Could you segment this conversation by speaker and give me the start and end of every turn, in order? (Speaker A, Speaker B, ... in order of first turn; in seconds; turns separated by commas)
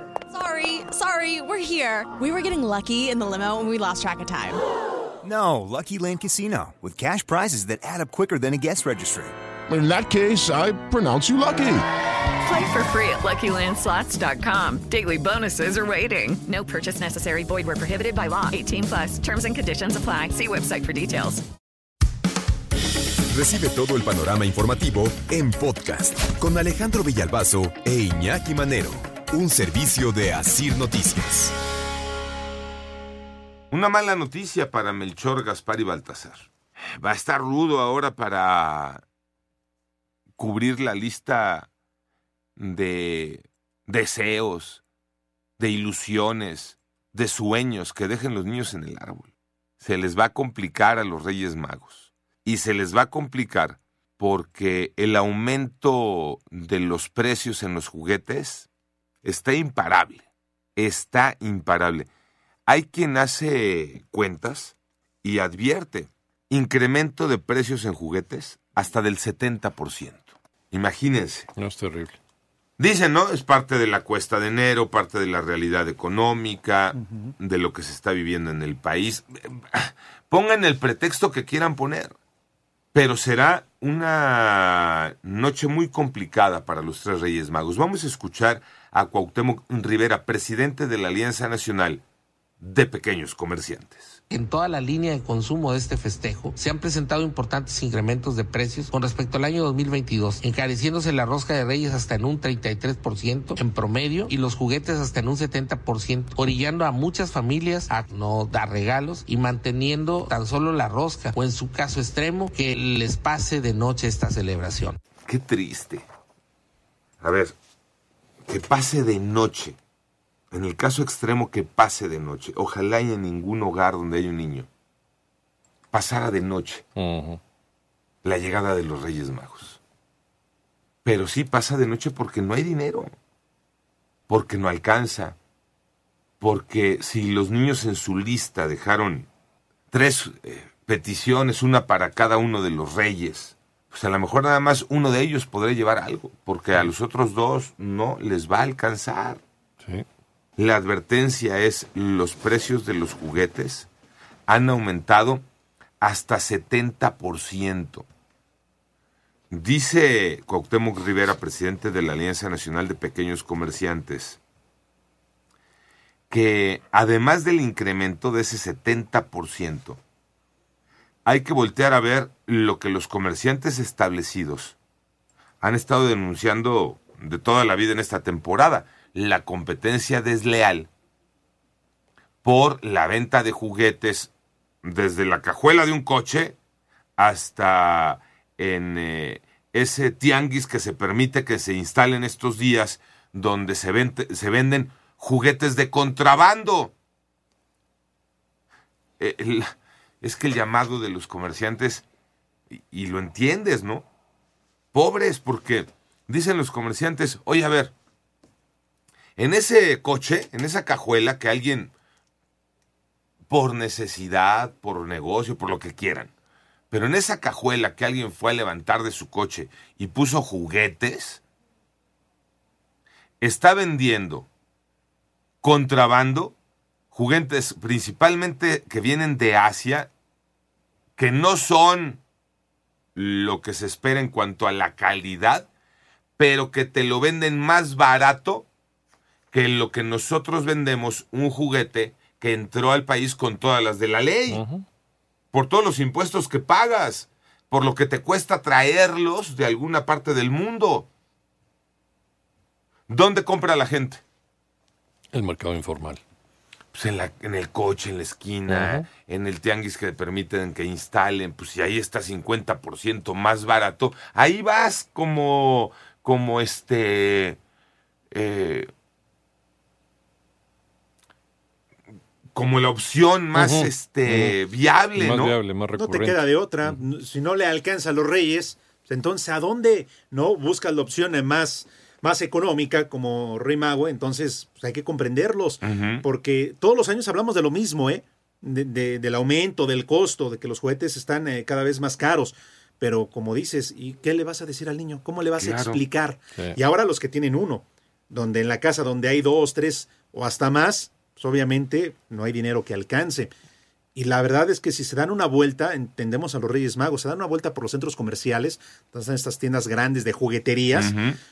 Speaker A: 0.3-4.6, Speaker B: 5.2-9.3, Speaker C: 9.7-11.8, Speaker D: 12.5-21.4, Speaker E: 23.3-31.5, Speaker F: 33.7-39.0, Speaker F: 40.4-41.7, Speaker F: 42.6-44.8, Speaker F: 45.6-58.7, Speaker F: 59.2-62.1, Speaker F: 62.7-71.5, Speaker G: 71.5-72.2, Speaker F: 72.8-82.1, Speaker H: 76.9-77.3, Speaker F: 82.9-92.0, Speaker F: 92.6-94.2, Speaker I: 94.3-115.0, Speaker F: 115.3-116.0, Speaker F: 117.2-117.5, Speaker F: 118.5-119.8, Speaker F: 120.5-124.7, Speaker F: 125.9-126.8, Speaker G: 127.0-127.4, Speaker F: 128.2-129.8, Speaker F: 131.0-133.1, Speaker F: 134.3-135.4, Speaker F: 136.4-139.3, Speaker F: 139.9-149.4, Speaker F: 150.6-153.9, Speaker F: 154.5-155.4, Speaker F: 156.0-158.1, Speaker F: 159.5-164.4, Speaker F: 166.3-170.0, Speaker F: 171.2-174.8, Speaker F: 175.6-180.9, Speaker F: 182.4-184.3, Speaker F: 184.8-186.6, Speaker F: 187.2-196.9, Speaker F: 199.2-202.0, Speaker F: 202.8-204.1, Speaker F: 204.9-207.9, Speaker F: 209.4-211.9, Speaker F: 213.5-216.3, Speaker F: 216.9-221.4, Speaker F: 223.4-224.5, Speaker F: 225.6-226.6, Speaker F: 227.1-230.1, Speaker F: 231.2-232.2, Speaker F: 233.2-235.7, Speaker F: 236.4-238.7, Speaker F: 239.5-244.6, Speaker G: 244.5-244.8, Speaker F: 245.5-251.1, Speaker F: 253.1-254.2, Speaker G: 255.3-256.2, Speaker F: 256.9-267.6, Speaker G: 258.7-259.1, Speaker F: 268.3-268.9, Speaker F: 272.5-275.6, Speaker G: 273.5-274.6, Speaker G: 275.1-277.0, Speaker H: 275.9-303.5, Speaker F: 285.8-286.2, Speaker F: 295.6-296.0, Speaker H: 304.1-311.1, Speaker F: 310.9-311.4